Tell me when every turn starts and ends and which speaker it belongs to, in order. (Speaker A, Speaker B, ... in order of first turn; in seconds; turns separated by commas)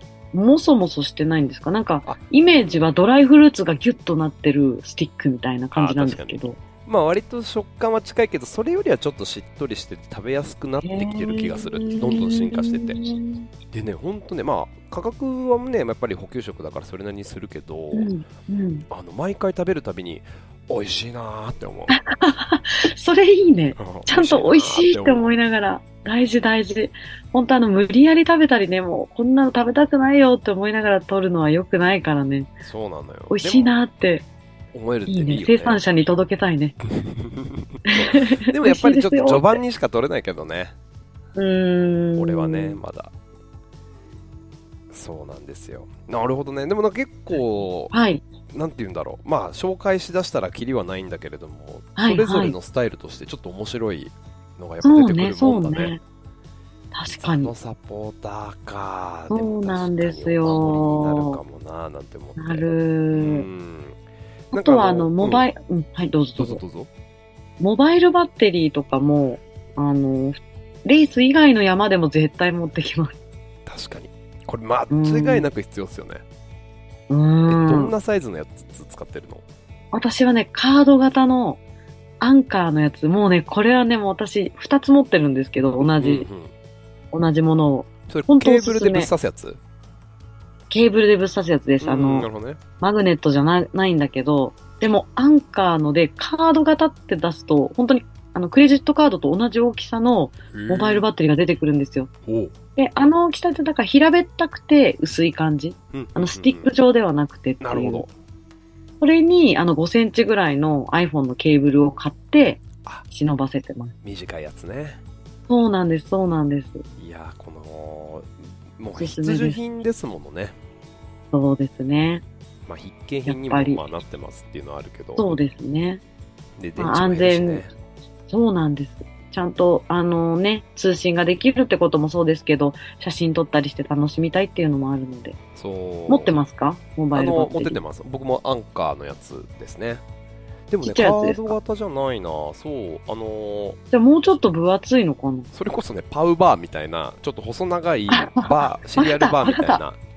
Speaker A: 0.3-6.6, Speaker B: 2.0-2.9, Speaker B: 5.8-13.0, Speaker A: 10.8-13.5, Speaker B: 13.7-18.1, Speaker A: 17.9-18.9, Speaker B: 18.9-22.0, Speaker A: 21.9-32.5, Speaker B: 23.8-25.3, Speaker B: 32.6-33.8, Speaker A: 33.3-34.3, Speaker B: 34.7-35.8, Speaker A: 35.1-36.8, Speaker B: 36.8-40.8, Speaker A: 37.9-39.6, Speaker A: 41.4-42.8, Speaker B: 42.2-43.1, Speaker B: 44.9-47.9, Speaker A: 47.9-48.2, Speaker B: 48.5-56.0, Speaker A: 52.0-52.5, Speaker A: 54.8-56.0, Speaker A: 56.9-57.5, Speaker B: 57.1-64.0, Speaker A: 59.3-61.4, Speaker A: 62.4-63.5, Speaker B: 64.5-65.5, Speaker A: 64.5-66.6, Speaker B: 66.4-66.9, Speaker A: 67.6-73.2, Speaker B: 73.7-76.2, Speaker A: 74.9-75.5, Speaker A: 77.1-78.0, Speaker B: 77.5-79.4, Speaker A: 79.9-81.6, Speaker A: 82.2-86.3, Speaker B: 85.8-86.5, Speaker A: 87.1-89.1, Speaker B: 88.1-89.6, Speaker A: 90.7-102.1, Speaker B: 91.8-92.6, Speaker B: 100.5-101.1, Speaker B: 102.3-102.5, Speaker A: 102.8-108.0, Speaker B: 105.9-106.7, Speaker B: 107.6-108.1, Speaker A: 109.0-114.0, Speaker B: 114.0-115.0, Speaker A: 115.5-116.8, Speaker B: 117.0-120.6, Speaker A: 119.0-119.6, Speaker A: 121.3-122.2, Speaker B: 122.7-125.4, Speaker A: 123.3-123.8, Speaker A: 125.2-126.0, Speaker B: 126.6-127.7, Speaker A: 126.8-127.7, Speaker A: 128.3-135.4, Speaker B: 135.6-136.3, Speaker A: 136.1-137.8, Speaker B: 137.1-140.0, Speaker B: 140.7-143.8, Speaker A: 140.8-141.6, Speaker A: 143.9-145.5, Speaker B: 145.5-150.0, Speaker A: 148.1-149.8